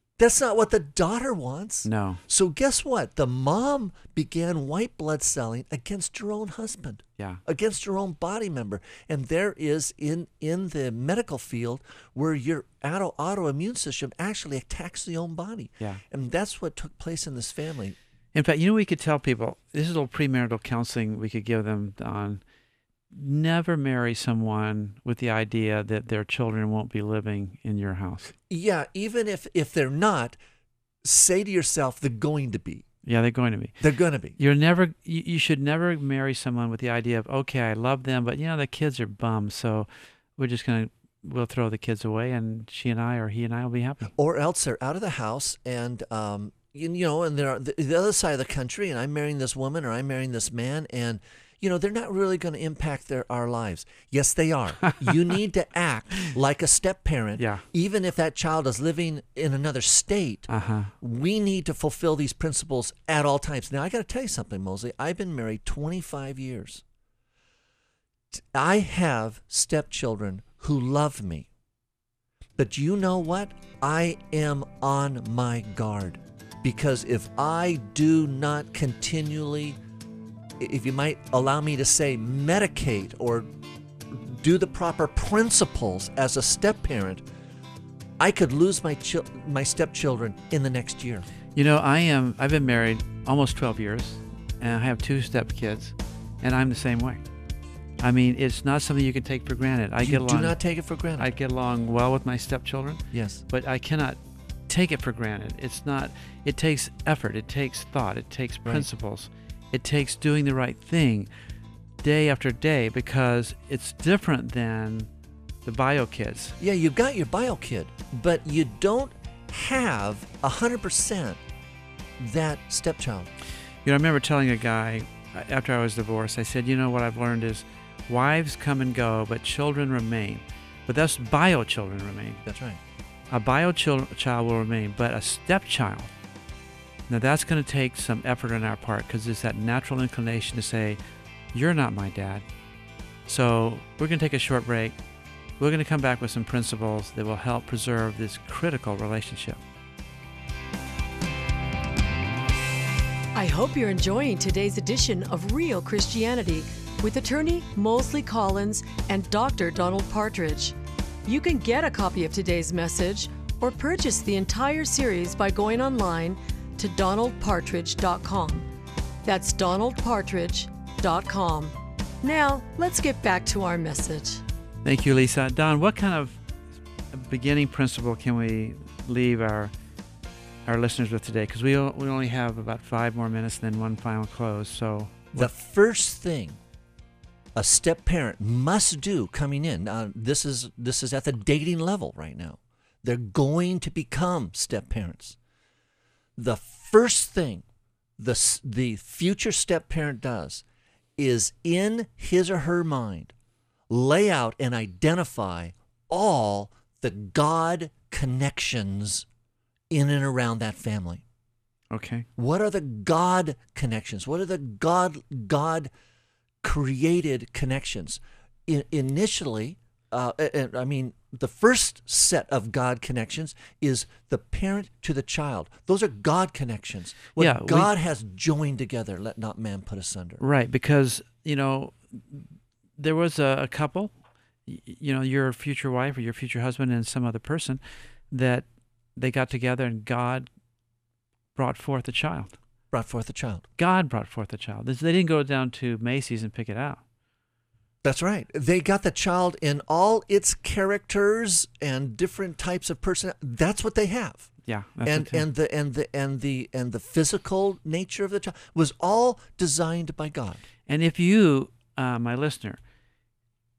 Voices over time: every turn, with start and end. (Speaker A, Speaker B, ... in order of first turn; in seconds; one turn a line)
Speaker A: 0.2-18.0
Speaker B: 1.9-2.2
Speaker B: 18.3-22.4
Speaker B: 23.1-28.3
Speaker A: 28.5-30.4
Speaker A: 31.0-32.9
Speaker B: 33.0-33.8
Speaker A: 33.8-34.4
Speaker B: 34.4-44.1
Speaker A: 44.1-60.5
Speaker B: 57.4-57.6
Speaker B: 60.5-60.9
Speaker A: 61.0-66.8
Speaker A: 68.3-71.5
Speaker A: 72.6-79.8
Speaker A: 80.6-83.5
Speaker A: 84.1-87.2
Speaker A: 88.2-91.2
Speaker B: 91.5-97.2
Speaker B: 98.0-100.6
Speaker A: 100.0-101.3
Speaker B: 101.2-104.2
Speaker A: 103.1-103.4
Speaker B: 104.7-111.3
Speaker B: 112.0-115.1
Speaker B: 115.6-116.5
Speaker A: 116.6-121.4
Speaker A: 122.2-123.3
Speaker B: 123.8-132.4
Speaker A: 132.4-132.8
Speaker B: 133.3-136.1
Speaker B: 137.1-141.0
Speaker B: 141.5-142.4
Speaker B: 143.3-145.0
Speaker B: 145.6-149.6
Speaker C: 153.3-160.7
Speaker C: 161.2-168.7
Speaker C: 169.2-174.4
Speaker B: 174.8-176.4
Speaker B: 177.1-179.7
Speaker B: 180.6-185.5
Speaker A: 185.3-186.6
Speaker A: 187.6-195.4
Speaker A: 196.4-197.6
Speaker A: 198.2-200.6
Speaker A: 201.2-203.3
Speaker A: 203.9-209.2
Speaker A: 209.9-211.2
Speaker B: 211.9-212.2
Speaker A: 212.4-215.9
Speaker A: 216.6-230.4
Speaker B: 227.4-227.9
Speaker B: 230.4-234.1
Speaker B: 234.7-240.5
Speaker B: 241.5-242.5
Speaker A: 242.9-243.6
Speaker B: 243.8-247.0
Speaker A: 248.0-254.5
Speaker B: 254.6-255.4
Speaker A: 255.0-260.6
Speaker B: 260.9-262.8